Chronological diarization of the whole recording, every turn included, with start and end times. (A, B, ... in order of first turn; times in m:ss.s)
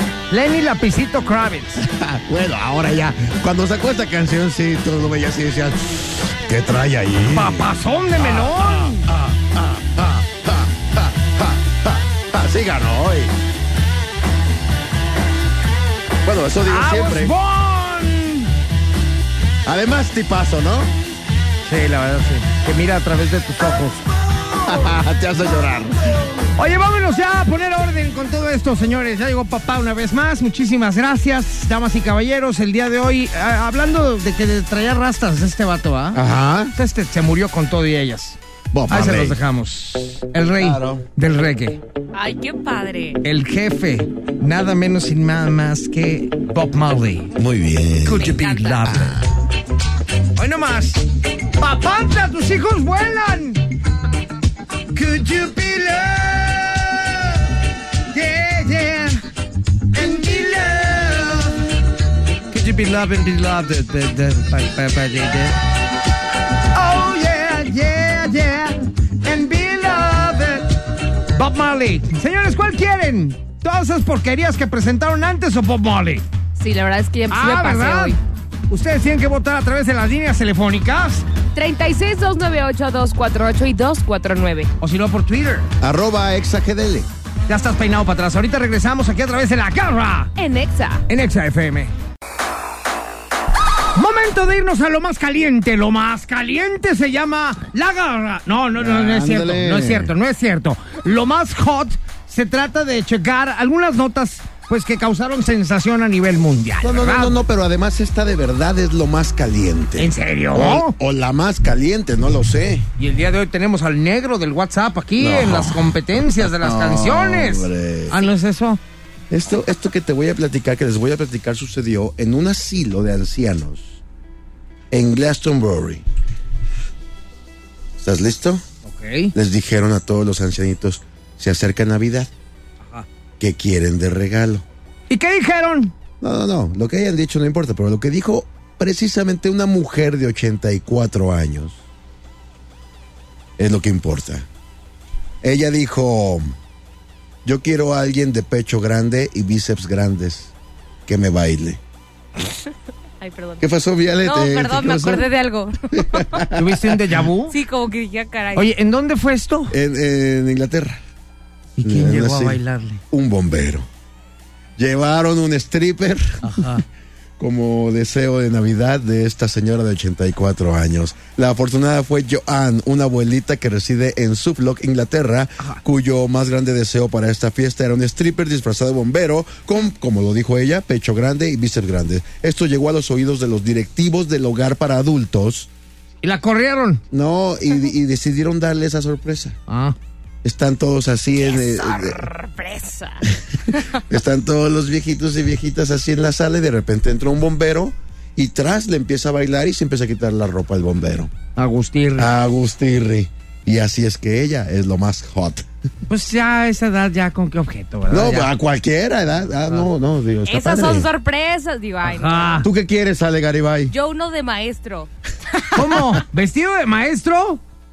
0:00.3-0:01.8 A
0:01.8-0:13.3 B
0:07.3-0:09.1 A
0:16.2-0:17.3 B
0:16.6-0:18.5 A
0:19.6-0:20.9 B
0:21.6-0:24.1 A
0:24.6-0:26.2 B
0:26.6-0:36.2 A
0:36.1-0:36.7 B
0:36.7-0:38.4 A
0:38.7-0:39.4 B
0:38.9-0:41.8 A
0:40.5-0:41.0 B
0:42.1-0:43.2 C
0:43.2-0:47.3 A
0:47.3-0:49.2 B
0:48.0-0:49.1 A
0:48.1-0:48.8 C
0:50.4-0:51.0 A
0:51.6-0:53.6 A
0:54.9-0:57.4 A
0:58.1-0:59.2 A
0:59.9-1:01.6 A
1:02.5-1:05.5 A
1:06.7-1:10.8 A
1:11.3-1:16.2 A
1:16.6-1:18.2 C
1:17.3-1:18.2 A
1:18.7-1:21.2 A
1:21.5-1:24.7 C
1:24.8-1:25.7 A
1:25.8-1:27.1 B
1:27.5-1:30.3 A
1:30.4-1:31.0 C
1:31.1-1:31.9 A
1:33.9-1:47.4 A
1:38.7-1:40.1 B
1:46.8-1:52.9 B
1:50.0-1:50.9 A
1:53.0-1:58.8 A
1:55.2-1:58.2 B
1:59.3-2:04.0 B
2:04.9-2:06.0 B
2:08.0-2:08.6 B
2:08.8-2:09.3 A
2:09.3-2:12.3 B
2:13.4-2:14.6 B
2:15.1-2:15.9 A
2:16.2-2:21.8 B
2:23.6-2:24.4 B
2:25.4-2:26.5 B
2:27.4-2:30.5 B
2:31.1-2:31.8 B
2:33.2-2:33.6 C
2:33.6-2:35.3 B
2:34.2-2:36.4 C
2:35.9-2:36.9 B
2:36.5-2:37.6 A
2:37.5-2:38.7 C
2:38.5-2:39.7 A
2:39.7-2:41.0 B
2:41.8-2:43.0 A
2:41.8-2:43.8 B
2:44.8-2:46.8 B
2:46.4-2:46.8 A
2:47.4-3:05.7 B
3:06.2-3:07.0 A
3:07.1-3:09.6 B
3:09.7-3:10.0 A
3:10.4-3:12.3 B
3:11.4-3:13.8 C
3:13.7-3:21.3 B
3:21.6-3:22.3 A
3:22.2-3:25.6 B
3:26.1-3:28.5 A
3:28.1-3:31.1 B
3:30.4-3:32.7 C
3:32.0-3:32.7 A
3:32.6-3:33.9 B
3:33.9-3:35.1 C
3:35.7-3:37.6 A